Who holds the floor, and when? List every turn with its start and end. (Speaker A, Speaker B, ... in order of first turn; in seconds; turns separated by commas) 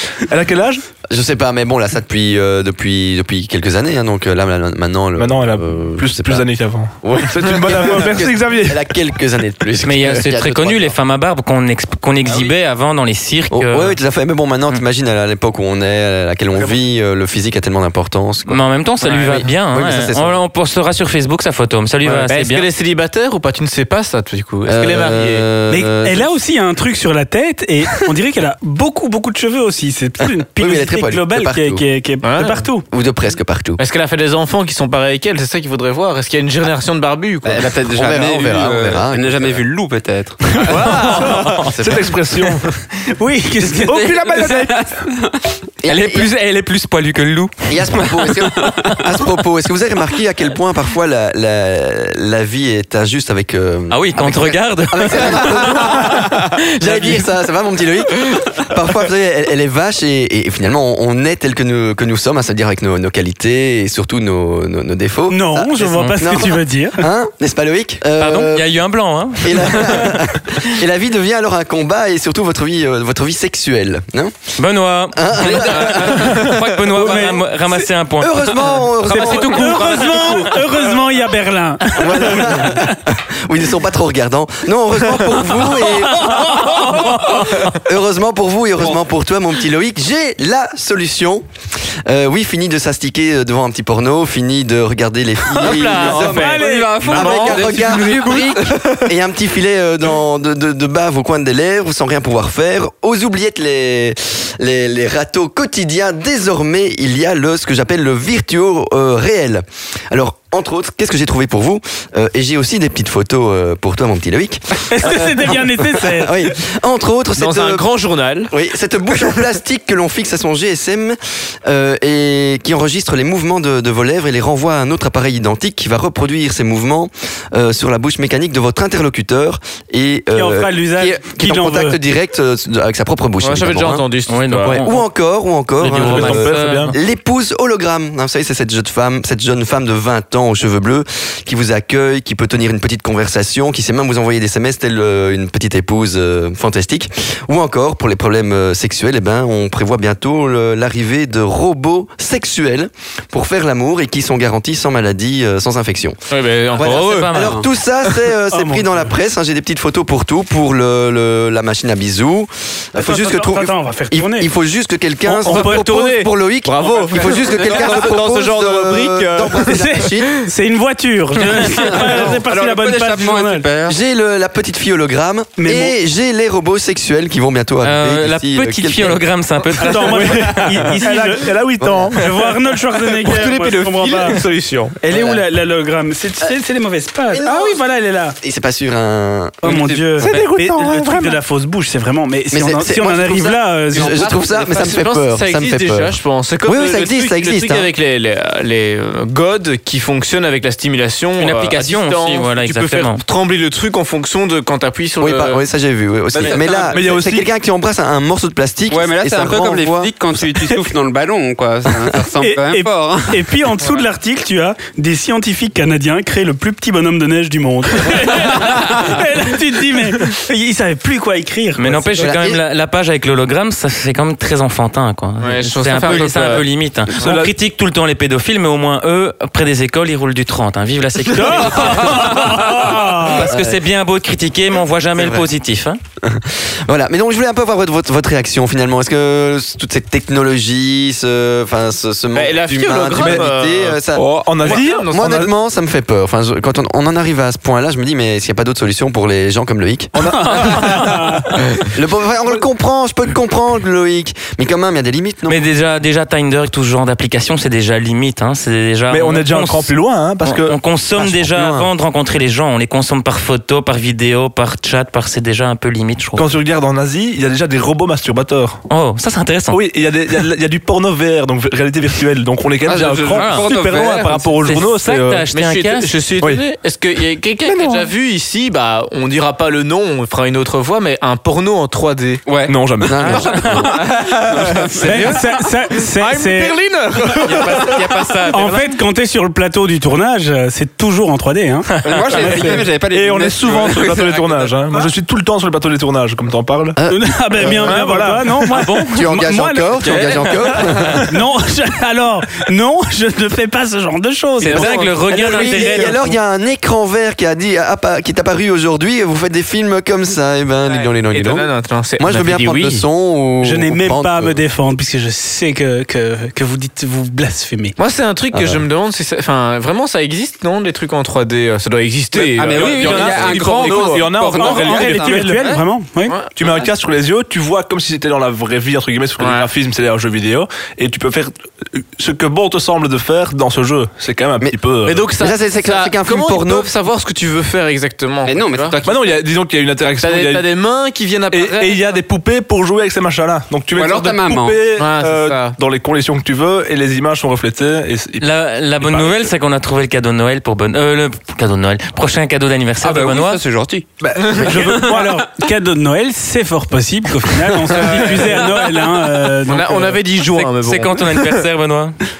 Speaker A: 0.2-0.8, Speaker B: 1.1-6.5, Speaker A: 5.2-8.8, Speaker B: 7.0-10.9, Speaker C: 9.8-13.9, Speaker D: 12.3-12.5, Speaker B: 13.5-20.4, Speaker C: 18.5-22.7, Speaker E: 19.1-19.5, Speaker E: 22.0-25.4, Speaker B: 24.6-26.3, Speaker F: 25.7-32.8, Speaker B: 30.6-31.9, Speaker E: 32.2-32.6, Speaker B: 32.9-33.8, Speaker E: 33.8-37.7, Speaker D: 37.4-40.8, Speaker B: 37.6-39.6, Speaker A: 40.7-42.8, Speaker E: 40.9-41.2, Speaker B: 41.2-42.1, Speaker F: 43.1-44.8, Speaker D: 43.7-45.6, Speaker B: 45.8-46.3, Speaker C: 45.9-48.2, Speaker B: 47.7-68.7, Speaker D: 48.4-49.0, Speaker C: 53.9-57.2, Speaker F: 65.3-67.1, Speaker C: 65.8-66.2, Speaker C: 68.2-70.3, Speaker B: 69.4-74.5, Speaker C: 74.6-80.5, Speaker B: 75.1-77.2, Speaker F: 77.0-77.4, Speaker B: 78.2-79.9, Speaker F: 79.1-82.9, Speaker B: 82.0-91.4, Speaker F: 86.1-87.2, Speaker B: 92.1-117.9, Speaker E: 95.6-98.8, Speaker D: 95.7-98.7, Speaker F: 96.1-97.3, Speaker F: 114.9-116.4, Speaker E: 117.4-118.5, Speaker B: 118.5-134.1, Speaker F: 130.3-132.0, Speaker E: 133.4-134.8, Speaker C: 134.3-135.0, Speaker B: 134.7-156.2, Speaker C: 135.8-136.9, Speaker A: 135.9-136.9, Speaker E: 156.3-157.3, Speaker B: 156.8-170.4, Speaker C: 156.8-157.6, Speaker D: 157.3-157.6, Speaker F: 158.5-159.1, Speaker F: 162.9-164.5, Speaker E: 165.3-169.8, Speaker F: 165.4-165.9, Speaker D: 166.8-168.1, Speaker F: 169.7-173.7, Speaker D: 171.6-174.0, Speaker B: 171.9-172.4, Speaker B: 173.9-179.2, Speaker F: 175.6-175.9, Speaker C: 177.8-180.8, Speaker F: 179.8-181.5, Speaker A: 180.1-182.5, Speaker F: 182.1-184.4, Speaker E: 183.2-184.9, Speaker F: 185.0-188.4, Speaker B: 185.1-185.4, Speaker B: 187.3-187.8, Speaker B: 188.4-189.8, Speaker F: 189.6-194.3, Speaker C: 190.1-190.5, Speaker A: 190.2-191.4, Speaker B: 192.5-197.9, Speaker D: 193.9-194.9, Speaker E: 194.7-205.6, Speaker C: 201.4-203.2, Speaker B: 205.2-210.1, Speaker E: 206.4-206.7, Speaker A: 206.4-207.5, Speaker D: 208.9-213.4, Speaker F: 212.4-222.2, Speaker C: 221.8-236.0, Speaker B: 222.2-222.6, Speaker E: 225.4-226.7, Speaker A: 227.1-227.6, Speaker F: 231.3-233.5, Speaker B: 233.4-233.8, Speaker B: 235.2-235.5, Speaker B: 236.2-250.7, Speaker E: 242.3-244.0, Speaker A: 243.2-243.4, Speaker A: 244.1-245.5, Speaker E: 244.6-245.4, Speaker A: 250.1-251.5, Speaker F: 250.4-251.5, Speaker C: 250.6-251.0, Speaker B: 251.9-255.6, Speaker C: 255.5-266.5, Speaker A: 259.1-260.8, Speaker B: 261.1-261.9, Speaker A: 266.4-268.8, Speaker C: 268.9-269.8, Speaker A: 269.7-275.5, Speaker D: 272.9-274.5, Speaker C: 273.3-273.7, Speaker C: 274.6-276.2, Speaker E: 275.5-282.4, Speaker A: 276.4-276.6, Speaker A: 277.6-278.1, Speaker D: 282.4-285.5, Speaker A: 282.7-283.7, Speaker B: 283.0-283.7, Speaker C: 283.2-283.9, Speaker F: 285.0-286.8, Speaker E: 285.1-285.4, Speaker E: 285.9-288.0, Speaker C: 287.4-288.9, Speaker F: 288.5-292.8, Speaker D: 292.1-294.7, Speaker A: 292.3-297.0, Speaker B: 296.9-298.0, Speaker F: 297.1-300.2, Speaker A: 297.6-298.9, Speaker B: 299.0-301.3, Speaker D: 300.0-300.8, Speaker F: 301.1-306.0, Speaker C: 304.6-306.3, Speaker B: 304.7-314.6, Speaker E: 310.9-313.0, Speaker F: 313.6-317.9, Speaker E: 318.0-324.3, Speaker B: 318.5-318.8, Speaker D: 322.4-325.8, Speaker A: 322.7-325.7, Speaker F: 324.5-326.4, Speaker E: 326.3-326.9, Speaker A: 326.6-335.3, Speaker E: 329.4-329.7, Speaker E: 335.1-338.9, Speaker B: 335.3-336.9, Speaker D: 338.4-339.4, Speaker A: 339.0-340.6, Speaker E: 340.2-342.2, Speaker A: 341.5-349.5, Speaker D: 343.9-344.8, Speaker E: 345.0-345.8, Speaker C: 348.4-353.6, Speaker D: 353.0-355.2, Speaker A: 354.2-355.2, Speaker F: 354.6-360.2, Speaker E: 358.0-358.6, Speaker E: 359.7-361.6, Speaker C: 360.5-362.1